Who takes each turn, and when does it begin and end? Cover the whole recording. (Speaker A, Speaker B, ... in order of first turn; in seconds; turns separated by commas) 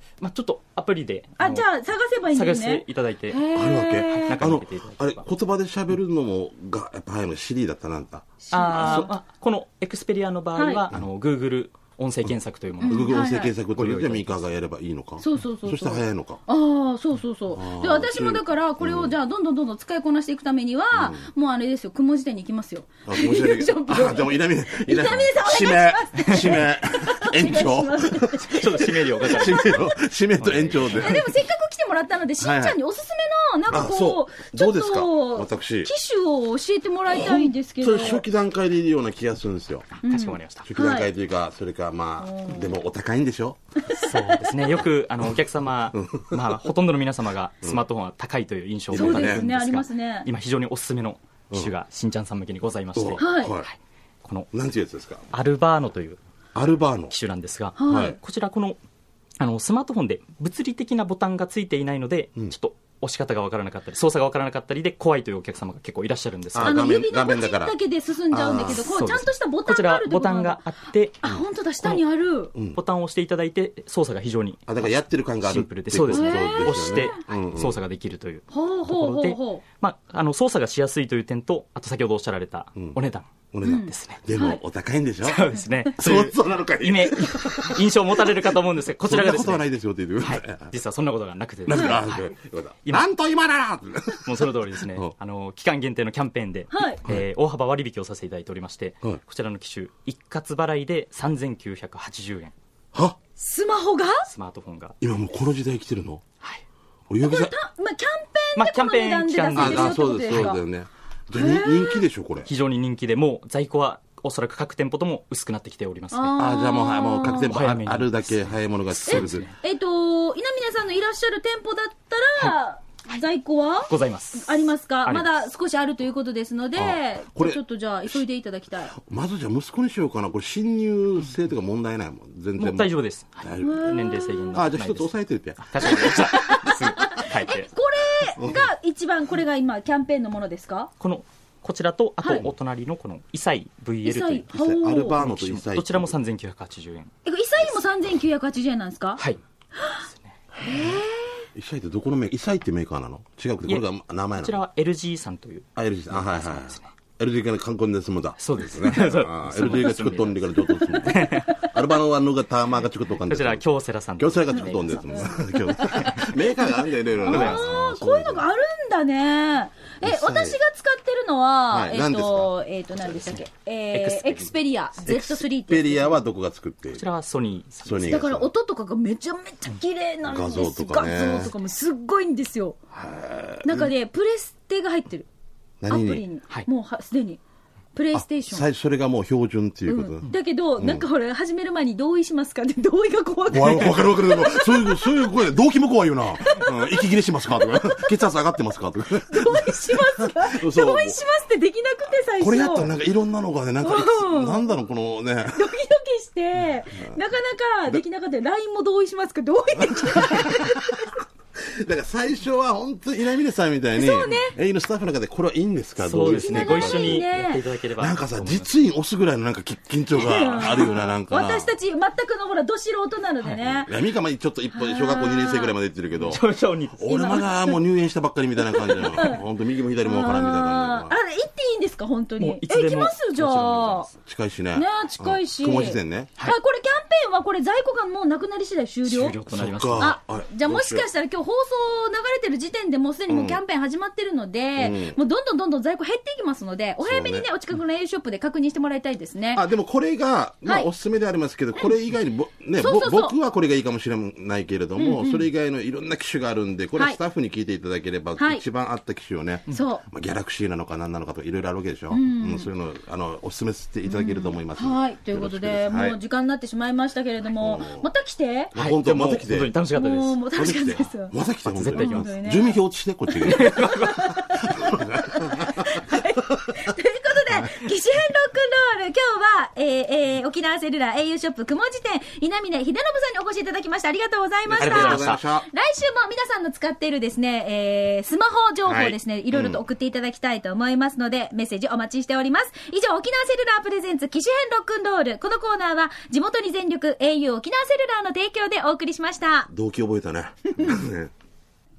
Speaker A: 0.2-1.7, Speaker B: 1.4-4.5, Speaker A: 2.3-5.2, Speaker C: 3.5-9.1, Speaker B: 8.4-9.2, Speaker A: 8.5-14.4, Speaker B: 10.6-10.8, Speaker C: 12.3-16.4, Speaker B: 12.8-13.5, Speaker B: 15.2-29.9, Speaker C: 17.6-19.2, Speaker C: 20.9-21.3, Speaker C: 23.1-31.3, Speaker A: 28.5-31.2, Speaker B: 31.0-38.2, Speaker C: 32.4-32.8, Speaker C: 33.7-35.9, Speaker C: 37.1-39.9, Speaker B: 40.0-41.1, Speaker A: 40.0-40.7, Speaker C: 40.6-43.6, Speaker B: 42.2-42.7, Speaker B: 43.9-44.1, Speaker A: 44.0-54.5, Speaker C: 45.9-46.6, Speaker C: 48.9-49.5, Speaker B: 48.9-50.3, Speaker C: 53.0-53.7, Speaker B: 53.2-53.5, Speaker C: 54.5-55.2, Speaker A: 55.3-56.2, Speaker C: 56.5-57.1, Speaker A: 57.1-58.8, Speaker B: 57.8-58.2, Speaker C: 57.9-58.2, Speaker A: 59.4-66.9, Speaker C: 66.5-67.8, Speaker B: 66.6-70.6, Speaker C: 68.3-68.9, Speaker A: 68.6-71.2, Speaker B: 71.2-72.5, Speaker A: 72.7-74.8, Speaker C: 74.7-77.8, Speaker A: 75.4-84.2, Speaker B: 76.1-77.2, Speaker B: 78.5-79.6, Speaker C: 83.5-85.5, Speaker B: 83.6-84.6, Speaker A: 85.2-89.7, Speaker C: 86.0-90.7, Speaker A: 90.2-92.3, Speaker C: 91.7-95.1, Speaker B: 91.7-92.0, Speaker A: 94.2-102.5, Speaker B: 96.7-97.0, Speaker B: 103.4-104.3, Speaker A: 104.3-105.0, Speaker C: 105.0-106.2, Speaker C: 107.1-107.6, Speaker B: 107.2-110.6, Speaker A: 108.6-110.5, Speaker C: 109.5-112.5, Speaker B: 111.3-112.0, Speaker A: 112.5-116.4, Speaker B: 116.1-117.5, Speaker C: 116.4-119.5, Speaker A: 117.2-119.5, Speaker B: 119.0-128.9, Speaker A: 123.9-125.3, Speaker C: 126.8-128.2, Speaker C: 128.9-132.9, Speaker A: 132.6-135.1, Speaker C: 133.4-134.0, Speaker B: 133.6-134.5, Speaker C: 134.5-136.3, Speaker A: 135.6-137.7, Speaker B: 135.8-140.9, Speaker C: 138.4-138.7, Speaker A: 141.0-147.1, Speaker B: 142.2-142.5, Speaker B: 144.1-145.2, Speaker C: 144.6-146.1, Speaker B: 147.2-149.2, Speaker B: 149.8-150.0, Speaker A: 150.0-150.3, Speaker B: 150.6-151.5, Speaker C: 151.6-154.6, Speaker A: 153.7-156.9, Speaker C: 155.8-163.6, Speaker A: 158.4-161.6, Speaker B: 160.9-161.7, Speaker A: 163.3-165.3, Speaker C: 164.2-168.5, Speaker B: 165.1-166.7, Speaker A: 165.9-166.3, Speaker A: 167.2-167.8, Speaker B: 167.2-176.2, Speaker C: 170.0-170.6, Speaker C: 171.7-172.5, Speaker A: 173.9-174.5, Speaker C: 175.1-177.1, Speaker A: 176.9-178.2, Speaker C: 177.8-178.5, Speaker B: 178.1-182.8, Speaker C: 180.2-181.5, Speaker C: 182.9-183.9, Speaker B: 183.6-185.3, Speaker C: 185.8-186.2, Speaker B: 185.9-187.4, Speaker B: 187.9-188.7, Speaker C: 188.1-190.2, Speaker B: 189.9-195.3, Speaker C: 190.8-191.1, Speaker C: 193.5-201.2, Speaker B: 196.4-198.1, Speaker B: 199.3-202.9, Speaker C: 202.4-205.7, Speaker B: 203.8-204.8, Speaker B: 205.5-211.2, Speaker C: 209.9-211.1, Speaker C: 211.6-217.3, Speaker B: 214.0-214.6, Speaker A: 216.0-218.7, Speaker B: 216.4-217.6, Speaker C: 218.0-221.7, Speaker B: 220.1-223.9, Speaker C: 223.6-226.4, Speaker B: 224.7-225.7, Speaker A: 226.3-227.4, Speaker C: 227.0-231.1, Speaker B: 227.1-227.8, Speaker B: 228.7-229.4, Speaker B: 230.0-234.1, Speaker A: 232.4-234.2, Speaker C: 234.2-236.3, Speaker B: 234.7-239.4, Speaker A: 239.1-240.1, Speaker C: 239.5-241.1, Speaker B: 240.0-249.6, Speaker C: 243.3-243.6, Speaker C: 244.8-245.2, Speaker C: 247.0-247.5, Speaker C: 249.6-266.2, Speaker B: 252.8-253.4, Speaker B: 255.0-255.5, Speaker B: 258.4-258.6, Speaker B: 259.7-260.0, Speaker B: 262.1-262.7, Speaker B: 264.1-268.7, Speaker C: 267.6-268.1, Speaker C: 268.7-269.7, Speaker A: 268.7-270.4, Speaker B: 269.9-271.3, Speaker C: 270.6-274.0, Speaker A: 271.7-272.3, Speaker B: 271.9-272.8, Speaker A: 273.4-274.4, Speaker B: 273.5-299.7, Speaker C: 274.5-276.2, Speaker C: 284.6-285.7, Speaker A: 284.8-285.4, Speaker C: 288.9-289.8, Speaker C: 299.7-301.3